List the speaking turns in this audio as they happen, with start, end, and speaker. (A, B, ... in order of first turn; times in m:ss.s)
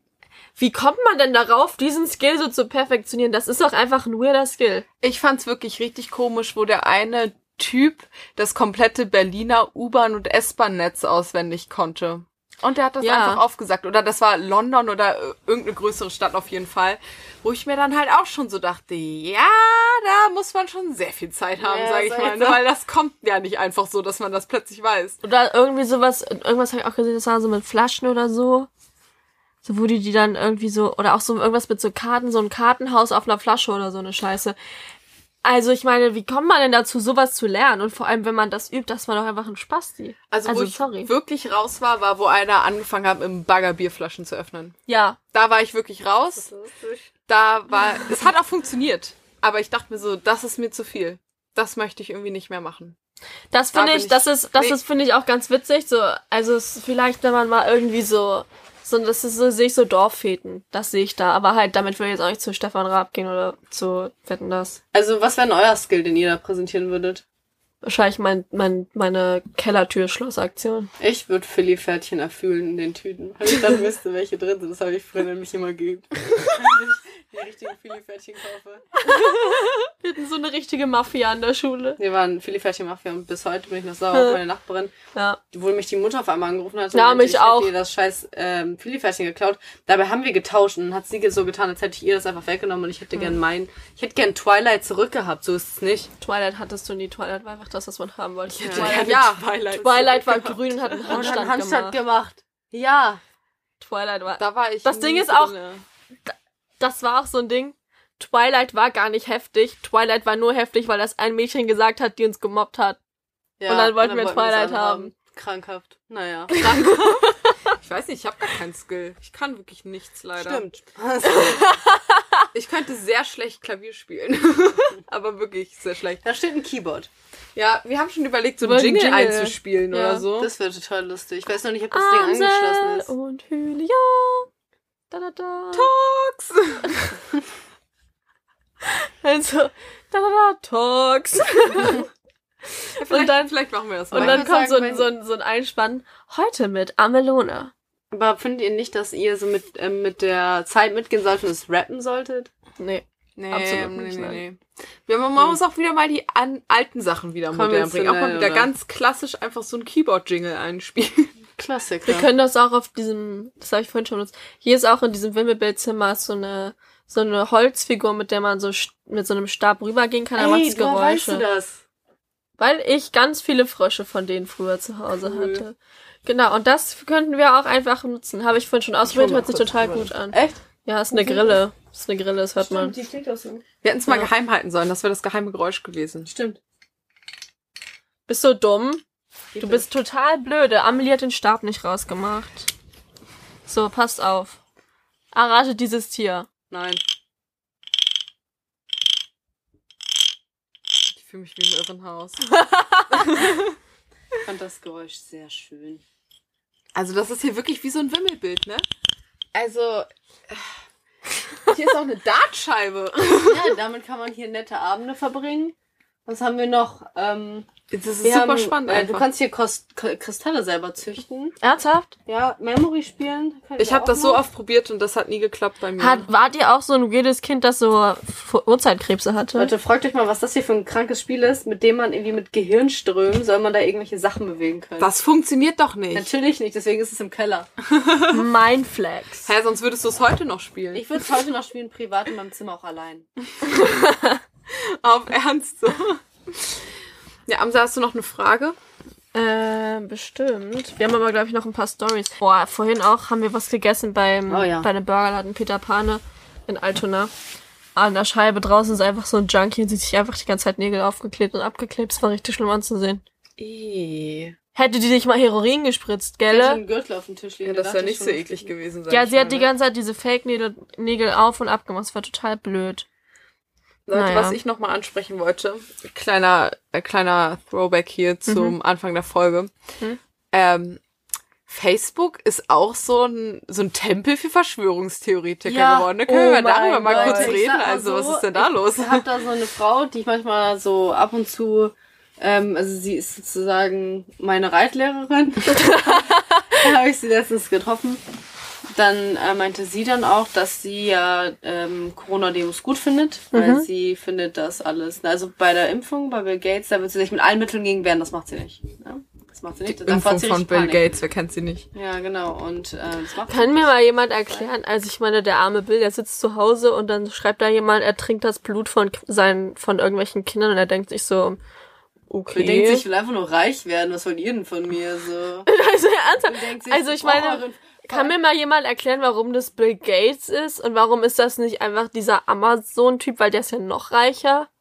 0:00.6-0:04.8 A
0:05.0-0:25.2 B
0:13.0-0:13.4 A
0:21.6-0:22.6 C
0:25.2-0:28.7 A
0:29.6-0:34.6 A
0:35.4-0:41.1 A
0:40.3-0:44.8 B
0:44.9-0:45.2 A
0:45.3-0:46.5 B
0:46.4-0:47.1 C
0:47.3-0:53.0 B
0:53.5-1:04.8 A
0:53.7-0:54.8 B
1:04.9-1:07.2 C
1:07.8-1:10.9 A
1:11.0-1:18.9 C
1:19.0-1:22.0 A
1:22.0-1:24.9 C
1:24.1-1:24.4 A
1:25.5-1:36.1 C
1:26.9-1:27.7 A
1:36.2-1:42.0 A
1:38.5-1:41.4 B
1:38.6-1:39.1 C
1:41.1-1:43.2 C
1:43.8-1:45.7 A
1:44.4-1:45.8 B
1:46.3-1:53.0 A
1:53.6-1:56.7 C
1:53.7-1:55.1 A
1:56.5-1:57.6 A
1:56.6-2:00.6 B
2:00.4-2:01.7 C
2:01.2-2:02.5 A
2:02.5-2:06.2 B
2:06.2-2:07.1 C
2:07.6-2:10.5 B
2:08.6-2:10.3 A
2:10.4-2:13.1 C
2:11.9-2:14.5 A
2:15.1-2:15.9 A
2:15.7-2:17.2 B
2:18.8-2:22.1 A
2:23.0-2:23.5 A
2:23.0-2:24.5 B
2:24.1-2:27.7 A
2:24.1-2:25.1 C
2:28.1-2:32.5 C
2:32.8-2:34.4 A
2:33.4-2:41.3 B
2:37.5-2:38.7 C
2:41.6-2:42.3 C
2:42.0-2:51.4 A
2:50.4-2:51.8 C
2:52.6-3:03.0 A
2:55.2-2:55.6 C
2:59.1-3:00.6 C
3:01.1-3:01.6 C
3:02.6-3:03.6 C
3:03.8-3:06.3 B
3:06.3-3:06.6 C
3:08.3-3:09.0 A
3:09.6-3:09.9 C
3:09.6-3:12.7 A
3:13.7-3:14.6 A
3:15.3-3:16.5 A
3:16.7-3:17.0 C
3:21.1-3:22.6 B
3:22.5-3:23.4 A
3:23.1-3:23.8 B
3:24.4-3:26.0 C
3:26.9-3:28.8 B
3:29.5-3:30.8 B
3:31.6-3:33.8 B
3:33.4-3:35.7 C
3:36.3-3:37.7 C
3:37.9-3:39.2 B
3:38.2-3:41.6 C
3:41.6-3:42.1 A
3:42.3-3:44.4 C
3:43.8-3:46.3 B
3:46.0-3:49.7 A
3:49.6-3:55.1 C
3:55.0-3:56.3 B
3:56.1-3:57.7 C
3:57.9-3:58.5 B
3:58.3-3:59.5 A
3:59.5-4:01.0 B
4:00.9-4:03.3 C
4:03.7-4:04.4 A
4:04.7-4:06.9 B
4:07.5-4:08.8 B
4:09.3-4:17.3 A
4:14.5-4:14.9 C
4:18.0-4:23.2 A
4:23.6-4:24.6 B
4:24.8-4:26.8 A
4:26.5-4:28.7 C
4:27.6-4:29.7 B
4:29.1-4:33.1 A
4:34.1-4:39.7 B
4:34.1-4:34.6 A
4:38.5-4:38.8 A
4:40.5-4:41.0 B
4:41.7-4:49.3 B
4:45.6-4:46.2 C
4:46.3-4:47.6 A
4:47.0-4:58.2 C
4:55.7-4:56.6 A
4:58.9-5:11.1 C
5:03.5-5:03.9 A
5:09.9-5:11.9 B
5:11.9-5:13.9 C
5:13.5-5:21.6 A
5:22.3-5:23.0 A
5:22.5-5:25.7 C
5:25.7-5:34.7 A
5:26.4-5:28.3 C